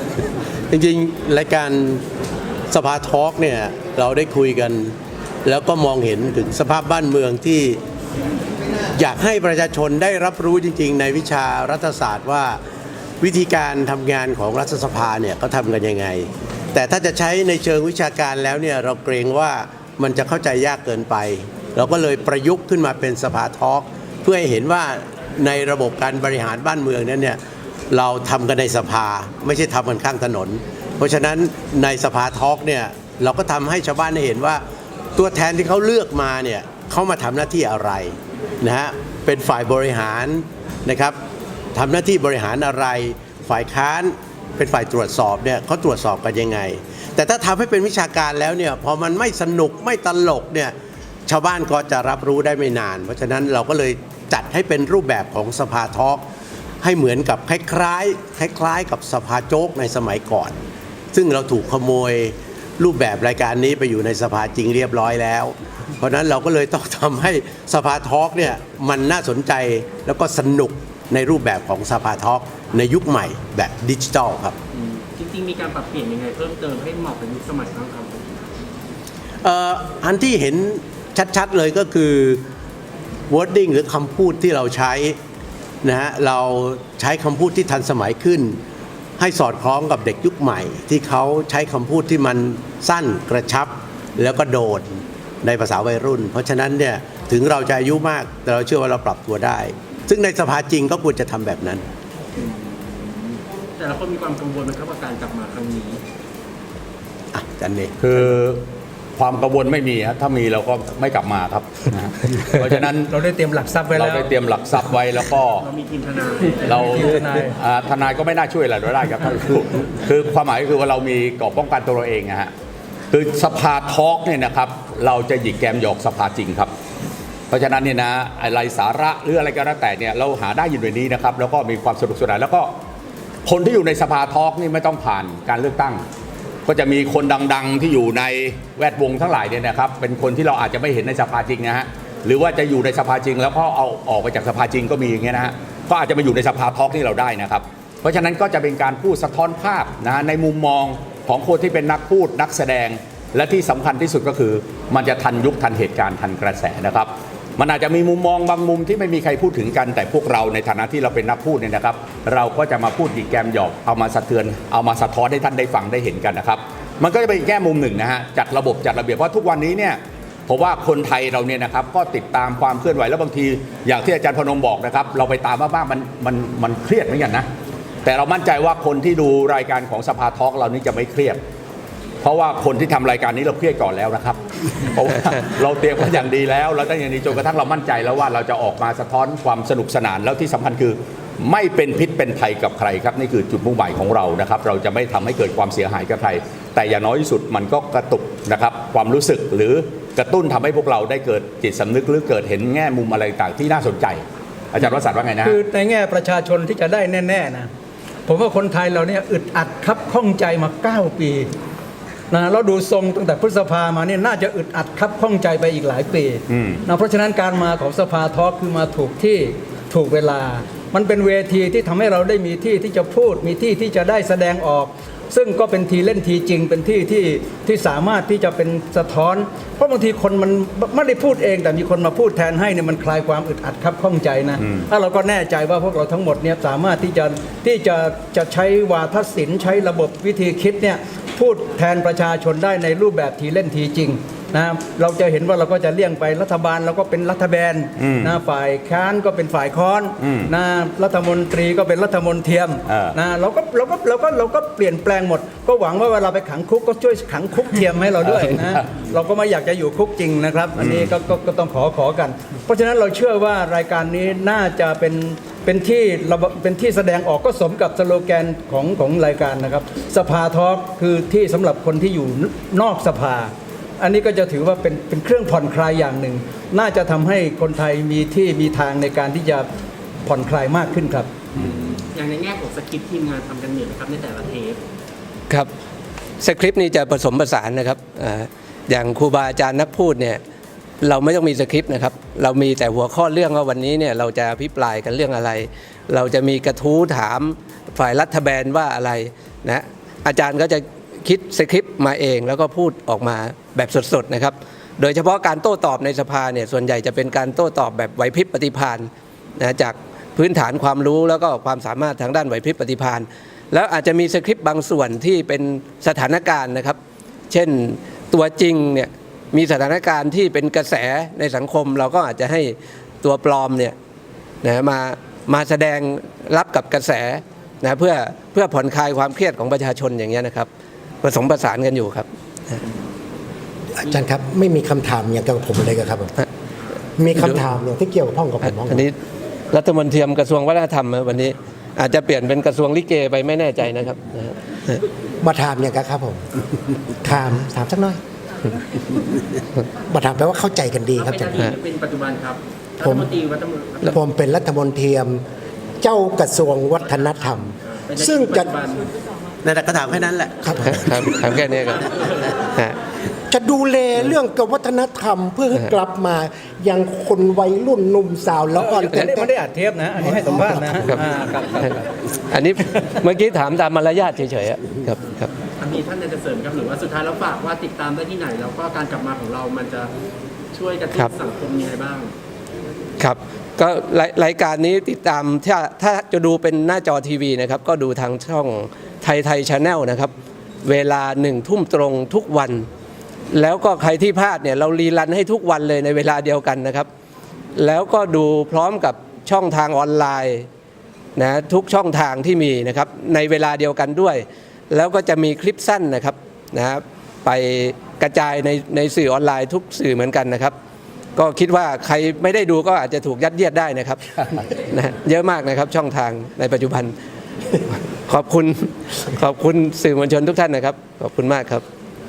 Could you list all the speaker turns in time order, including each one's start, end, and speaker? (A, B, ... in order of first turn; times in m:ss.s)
0:00.7-0:02.0 A
0:02.7-0:07.8 A
0:09.0-0:12.6 A
0:13.2-0:27.4 A
0:27.9-0:34.6 A
0:35.1-0:41.2 A
0:41.7-0:50.7 A
0:51.2-0:56.2 A
0:56.8-1:00.6 A
1:01.1-1:14.6 A
1:14.7-1:18.4 B
1:19.4-1:22.4 A
1:23.3-1:25.2 A
1:25.8-1:28.6 A
1:29.2-1:41.8 A
1:42.4-1:46.0 B
1:47.3-1:48.0 A
1:48.0-1:48.6 C
1:49.2-1:53.1 C
1:53.1-1:54.3 D
1:53.9-1:55.6 C
1:55.6-1:57.0 B
1:56.6-2:02.5 C
1:56.9-1:57.5 D
2:03.1-2:06.7 C
2:07.5-2:12.7 C
2:13.4-2:16.0 C
2:16.7-2:57.4 C
2:58.0-3:01.4 C
3:02.2-3:25.6 C
3:25.4-3:27.7 D
3:28.3-3:31.5 D
3:32.3-4:39.7 D
3:36.5-3:36.8 C
3:54.6-3:54.9 C
4:08.0-4:08.3 C
4:10.2-4:10.5 C
4:12.9-4:13.2 C
4:20.8-4:21.1 C
4:40.2-4:41.3 D
4:41.6-4:44.8 B
4:46.4-4:50.4 E
4:51.0-5:17.0 E
5:17.5-5:23.9 E
5:24.6-5:30.7 E
5:31.2-5:32.8 E
5:34.0-5:36.3 F
5:37.2-5:39.1 F
5:38.6-5:39.2 E
5:39.7-5:45.0 E
5:45.4-5:46.4 F
5:47.2-5:48.2 F
5:50.1-5:51.6 F
5:51.2-5:54.2 B
5:53.0-5:53.3 F
5:54.0-5:55.4 F
5:56.0-5:58.7 F
5:57.8-5:59.1 B
5:59.6-6:01.4 A
6:00.6-6:01.0 F
6:00.8-6:02.0 E
6:01.9-6:02.5 B
6:03.5-6:09.5 F
6:08.8-6:12.0 D
6:12.5-6:15.5 E
6:15.8-6:20.1 B
6:20.7-6:22.3 B
6:23.2-6:30.3 E
6:30.8-6:32.9 E
6:33.5-6:37.1 E
6:37.8-6:40.7 E
6:41.4-6:50.7 E
6:51.4-6:57.1 E
6:58.2-7:01.8 E